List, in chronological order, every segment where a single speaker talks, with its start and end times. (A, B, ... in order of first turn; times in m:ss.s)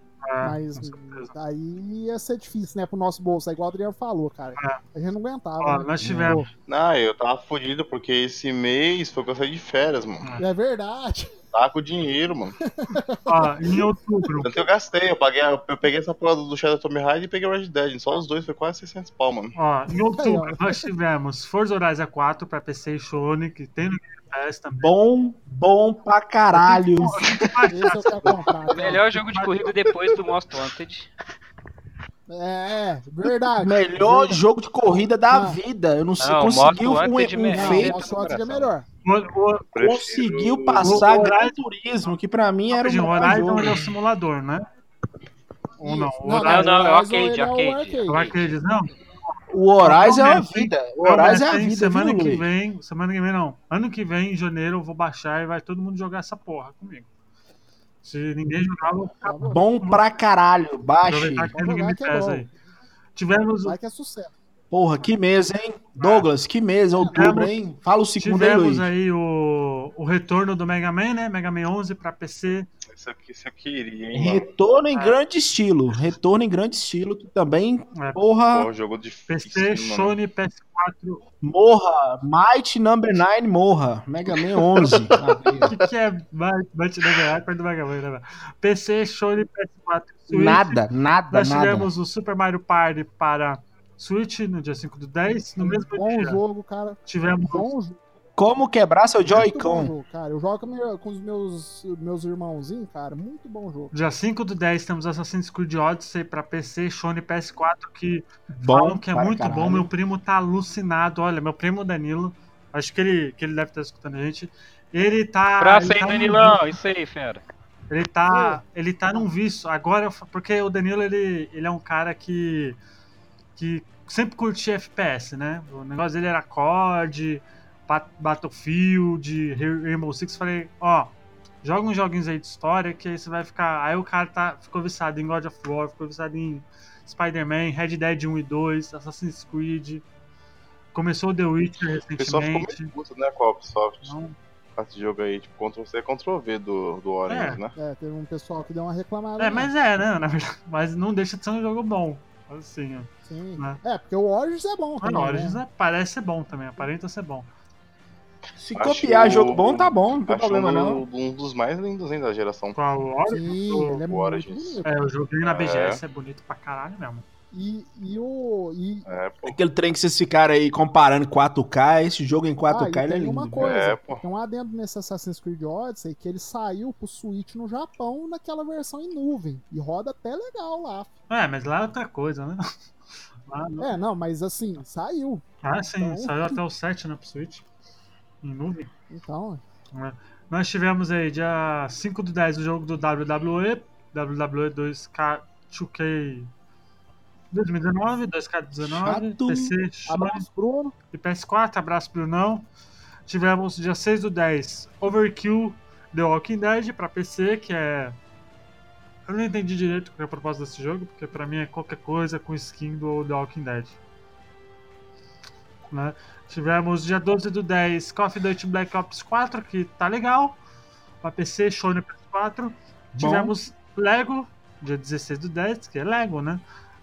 0:00.2-0:01.3 A
0:00.4-0:06.5 B
0:05.6-0:06.4 A
0:06.0-0:06.4 C
0:06.7-0:10.4 D
0:10.4-0:11.3 B
0:11.5-0:12.6 D
0:12.6-0:13.9 B
0:13.2-0:14.5 A
0:14.4-0:19.6 D
0:19.5-0:24.9 A
0:19.9-0:20.8 B
0:24.8-0:27.2 C
0:26.5-0:29.7 A
0:27.7-0:29.0 B
0:28.7-0:31.1 E
0:32.3-0:34.4 B
0:33.6-0:38.0 C
0:35.3-0:35.6 B
0:36.2-0:38.7 E
0:37.5-0:38.8 B
0:39.0-0:39.7 A
0:39.7-0:41.3 D
0:39.8-0:43.8 C
0:40.8-0:41.6 A
0:42.7-0:44.7 A
0:45.8-0:48.2 B
0:45.8-0:46.8 A
0:46.4-0:48.5 E
0:48.1-0:48.9 A
0:49.5-0:52.5 C
0:49.8-0:57.1 A
0:58.0-1:00.0 A
0:59.2-0:59.6 B
0:59.4-1:01.5 C
1:01.0-1:02.5 A
1:01.6-1:02.5 B
1:03.1-1:03.8 A
1:03.6-1:04.3 B
1:04.7-1:08.9 C
1:06.0-1:06.3 A
1:07.0-1:07.3 B
1:07.1-1:07.6 A
1:08.1-1:12.7 A
1:12.9-1:14.4 D
1:14.1-1:18.7 C
1:14.9-1:15.2 A
1:17.9-1:18.2 A
1:18.5-1:20.2 D
1:19.3-1:21.2 A
1:21.4-1:25.7 C
1:24.3-1:25.9 D
1:25.6-1:36.4 A
1:30.3-1:31.9 C
1:35.6-1:38.0 B
1:37.1-1:37.7 A
1:38.4-1:39.9 C
1:39.3-1:43.9 B
1:43.9-1:56.6 A
1:48.5-1:49.9 C
1:55.6-1:57.4 E
1:57.9-2:02.8 A
1:58.2-1:59.2 B
2:03.6-2:20.0 A
2:20.9-2:22.9 A
2:22.2-2:24.2 D
2:24.0-2:24.3 A
2:24.8-2:27.7 D
2:27.2-2:27.6 A
2:27.8-2:29.7 B
2:29.4-2:33.8 A
2:33.2-2:35.6 B
2:35.0-2:37.5 A
2:38.6-2:41.0 C
2:38.8-2:42.8 D
2:42.8-2:44.0 A
2:43.3-2:45.0 B
2:44.0-2:44.8 D
2:44.8-2:47.2 A
2:45.4-2:46.0 D
2:47.5-2:49.0 B
2:49.0-2:49.6 D
2:49.4-2:53.7 C
2:52.7-3:01.1 B
2:53.6-2:54.2 D
3:01.3-3:02.6 A
3:03.5-3:03.9 A
3:03.8-3:05.4 B
3:05.6-3:07.6 A
3:06.0-3:06.6 B
3:08.4-3:08.9 A
3:09.1-3:09.6 B
3:09.9-3:16.5 A
3:17.5-3:20.4 A
3:18.8-3:19.8 C
3:20.1-3:20.9 B
3:21.1-3:22.6 A
3:23.3-3:28.2 A
3:29.3-3:34.0 A
3:35.9-3:40.6 A
3:41.2-3:46.6 A
3:43.1-3:43.5 C